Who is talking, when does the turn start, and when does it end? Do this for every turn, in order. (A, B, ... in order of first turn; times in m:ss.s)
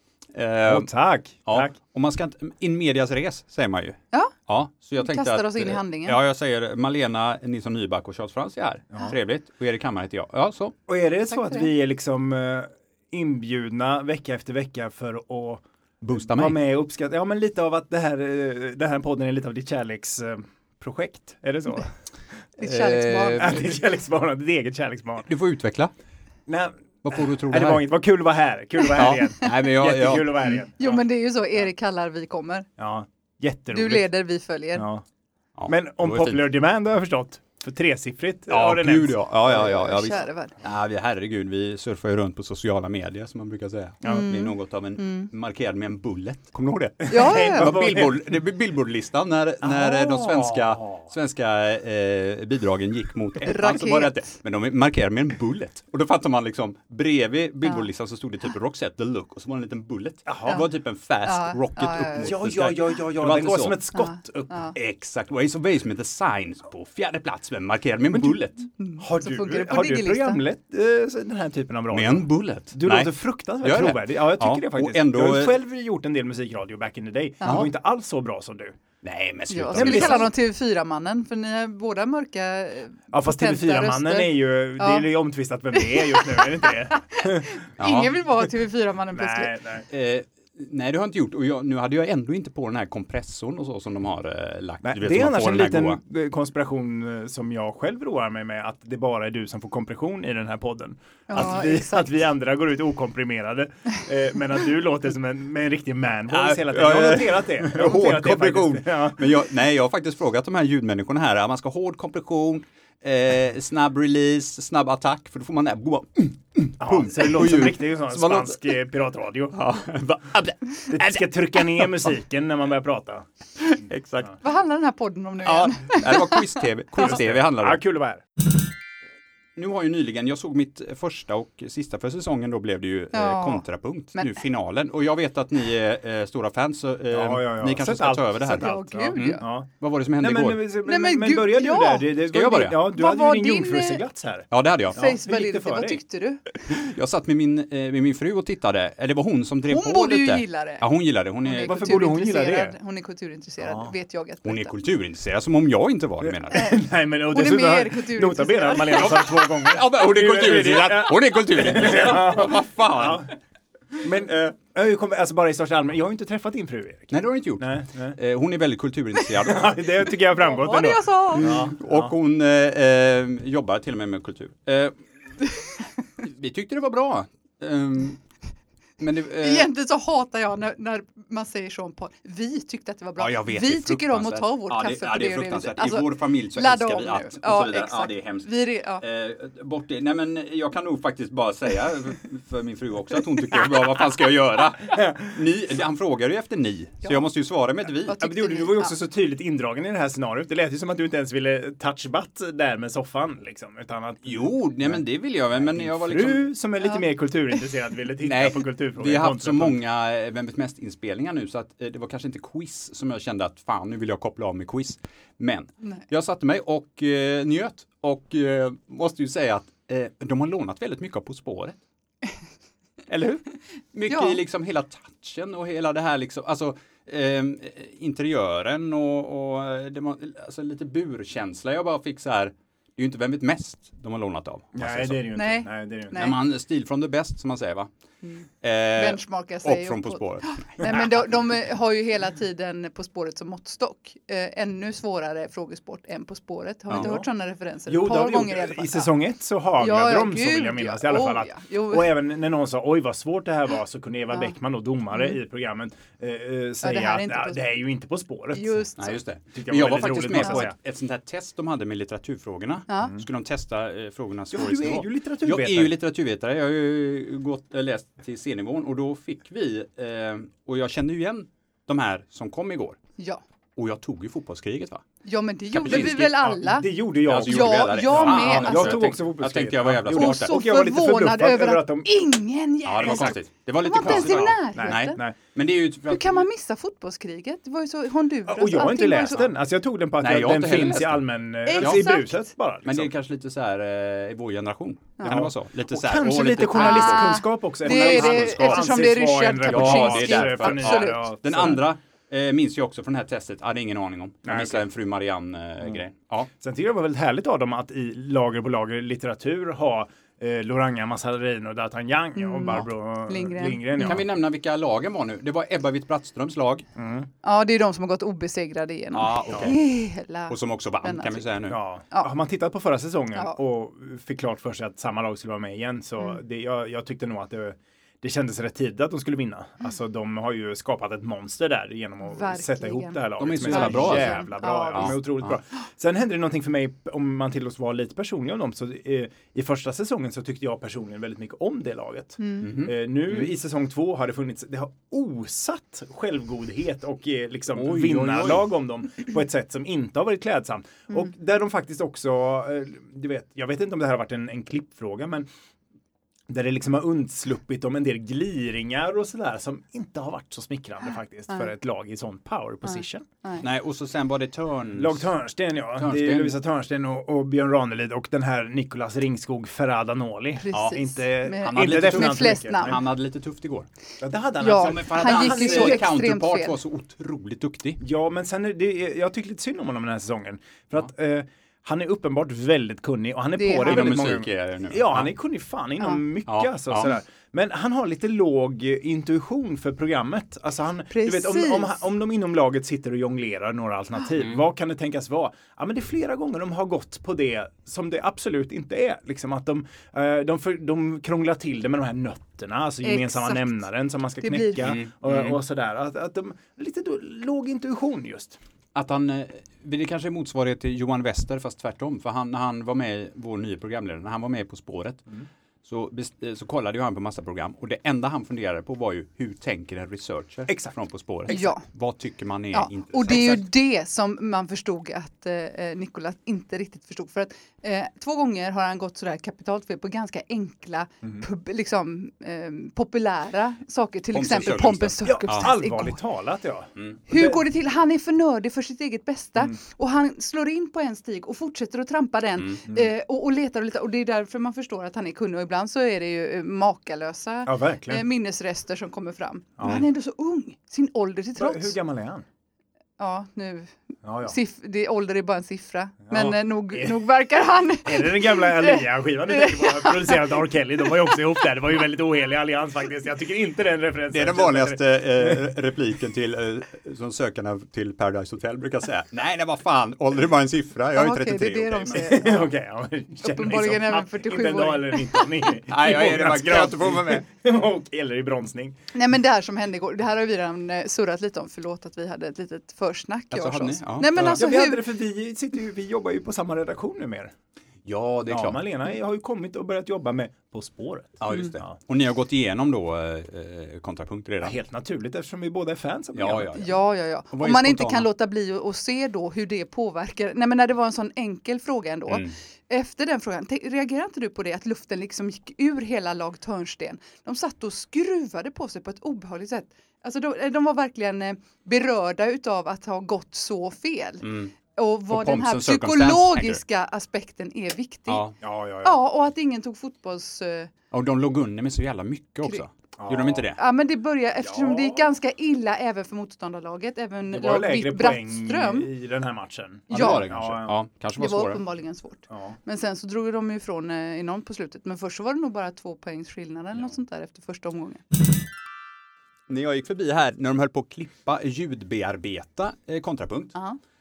0:00.3-0:00.9 A
0:00.7-0:01.8 B
0:01.4-0:10.8 A
0:05.0-0:06.2 C
0:10.9-0:21.9 B
0:11.3-0:11.7 C
0:16.0-0:16.6 A
0:22.6-0:23.6 C
0:22.6-0:23.6 A
0:23.4-0:25.3 B
0:25.2-0:25.9 A
0:26.5-0:31.0 B
0:27.0-0:27.9 A
0:29.0-0:30.6 A
0:30.8-0:32.7 C
0:32.8-0:34.1 B
0:33.7-0:34.9 C
0:34.7-0:35.0 B
0:35.6-0:36.5 A
0:35.7-0:39.9 B
0:38.5-1:03.8 A
0:39.6-0:40.6 C
0:44.0-0:45.3 C
0:47.0-0:48.2 B
0:47.1-0:47.8 C
0:49.6-0:51.1 B
0:53.4-0:54.2 C
1:00.3-1:00.6 B
1:01.2-1:02.4 C
1:02.2-1:04.6 B
1:03.9-1:04.8 C
1:04.7-1:08.7 A
1:08.1-1:08.4 B
1:08.8-1:10.4 C
1:09.0-1:18.8 B
1:11.9-1:15.6 A
1:17.4-1:17.7 C
1:19.0-1:20.3 A
1:19.5-1:25.1 C
1:19.7-1:20.3 B
1:23.1-1:27.6 B
1:25.7-1:29.5 C
1:27.8-1:28.1 A
1:29.1-1:29.9 B
1:29.9-1:36.0 A
1:34.8-1:49.3 B
1:41.3-1:41.9 C
1:46.3-1:58.7 A
1:56.8-1:59.6 B
1:59.5-2:02.1 A
2:00.9-2:03.2 B
2:03.6-2:04.4 A
2:04.4-2:06.7 C
2:05.4-2:07.8 A
2:07.0-2:08.2 B
2:09.6-2:20.6 A
2:13.1-2:14.4 C
2:17.1-2:26.0 B
2:18.5-2:19.4 C
2:20.8-2:22.1 C
2:22.3-2:22.8 A
2:22.7-2:24.0 C
2:24.5-2:25.0 A
2:24.9-2:26.4 C
2:26.7-2:32.0 A
2:29.7-2:30.8 C
2:31.4-2:34.8 C
2:31.6-2:32.8 B
2:33.6-2:33.9 B
2:34.4-2:36.8 A
2:36.4-2:43.3 B
2:37.3-2:39.3 C
2:38.9-2:43.3 A
2:44.0-2:48.2 B
2:44.3-2:44.5 A
2:47.1-2:49.8 A
2:49.4-2:52.1 B
2:50.4-2:51.6 C
2:51.3-2:55.0 A
2:56.2-2:58.2 A
2:59.0-2:59.7 A
2:59.3-3:09.0 C
3:03.2-3:18.2 A
3:18.0-3:18.9 C
3:18.1-3:29.8 B
3:24.2-3:26.5 A
3:28.2-3:41.8 A
3:43.1-3:55.3 A
3:44.1-3:44.4 C
3:54.7-3:56.3 B
3:55.3-3:56.4 C
3:56.2-3:57.9 A
3:58.2-4:09.1 C
3:58.6-4:01.0 A
4:06.9-4:07.3 B
4:07.9-4:18.8 B
4:09.8-4:12.2 C
4:16.8-4:17.6 C
4:18.5-4:19.2 C
4:19.0-4:33.0 A
4:19.5-4:20.8 B
4:20.3-4:20.7 C
4:22.9-4:23.2 C
4:24.5-4:26.0 B
4:33.8-4:35.0 A
4:35.2-4:36.9 C
4:35.7-4:36.4 A
4:35.8-4:42.1 B
4:37.3-4:40.6 A
4:37.4-4:39.1 C
4:40.1-4:45.2 C
4:42.8-4:46.4 A
4:43.0-4:43.4 B
4:44.0-4:45.4 B
4:46.0-4:49.5 C
4:48.5-4:53.1 B
4:50.2-4:51.2 A
4:51.6-4:52.5 C
4:51.8-4:52.1 A
4:52.8-4:59.0 A
4:55.2-5:01.8 B
4:56.6-5:01.3 C
4:59.6-5:06.5 A
5:04.4-5:04.9 B
5:06.6-5:14.3 B
5:12.4-5:14.2 C
5:14.0-5:16.8 A
5:17.0-5:17.3 B
5:17.4-5:21.5 C
5:19.1-5:19.8 A
5:20.5-5:21.8 A
5:21.7-5:55.5 B
5:32.2-5:35.2 C
5:33.4-5:35.6 A
5:42.4-5:42.8 C
5:42.6-5:43.5 A
5:47.7-5:48.7 A
5:56.5-6:03.2 B
6:02.8-6:03.7 C
6:03.6-6:05.3 A
6:05.0-6:13.0 B
6:06.0-6:06.6 A
6:10.6-6:13.0 C
6:10.7-6:11.0 A
6:11.5-6:13.9 A
6:14.2-6:16.1 B
6:14.6-6:16.8 C
6:14.8-6:18.0 A
6:18.0-6:48.6 B
6:23.6-6:24.3 C
6:23.8-6:25.3 A
6:26.5-6:27.1 A
6:31.1-6:32.0 C
6:34.4-6:34.6 A
6:43.0-6:43.9 C
6:44.4-6:45.0 C
6:44.8-6:45.6 A
6:49.0-6:55.3 A
6:55.8-7:03.7 A
7:00.7-7:01.0 B
7:01.5-7:01.9 C
7:02.7-7:16.2 C
7:14.3-7:15.8 A
7:15.2-7:17.6 B
7:17.3-7:31.9 C
7:27.7-7:28.2 B
7:29.8-7:30.1 B
7:31.6-7:32.4 B
7:33.2-7:41.6 C
7:34.2-7:34.6 B
7:36.3-7:37.2 B
7:38.0-7:45.7 B
7:44.3-7:52.6 A
7:51.1-7:52.7 C
7:52.1-7:59.0 B
7:53.4-7:55.8 C
7:55.9-7:57.4 A
7:59.1-8:05.1 C
8:03.5-8:04.6 A
8:04.3-8:07.5 B
8:08.0-8:08.8 A
8:08.5-8:11.9 B
8:11.4-8:14.8 A
8:14.6-8:16.8 B
8:16.3-8:18.3 A
8:16.7-8:38.5 C
8:22.3-8:22.6 A
8:34.4-8:34.7 A
8:35.3-8:36.8 A
8:38.3-8:38.6 A
8:38.6-8:39.2 B
8:39.0-8:40.9 C
8:41.1-8:43.8 A
8:43.2-8:43.7 B
8:43.7-8:49.1 C
8:44.6-8:45.2 B
8:47.5-8:51.0 B
8:50.1-8:50.5 C
8:50.1-8:51.8 A
8:51.4-8:58.2 C
8:52.5-8:52.8 B
8:59.7-9:03.8 A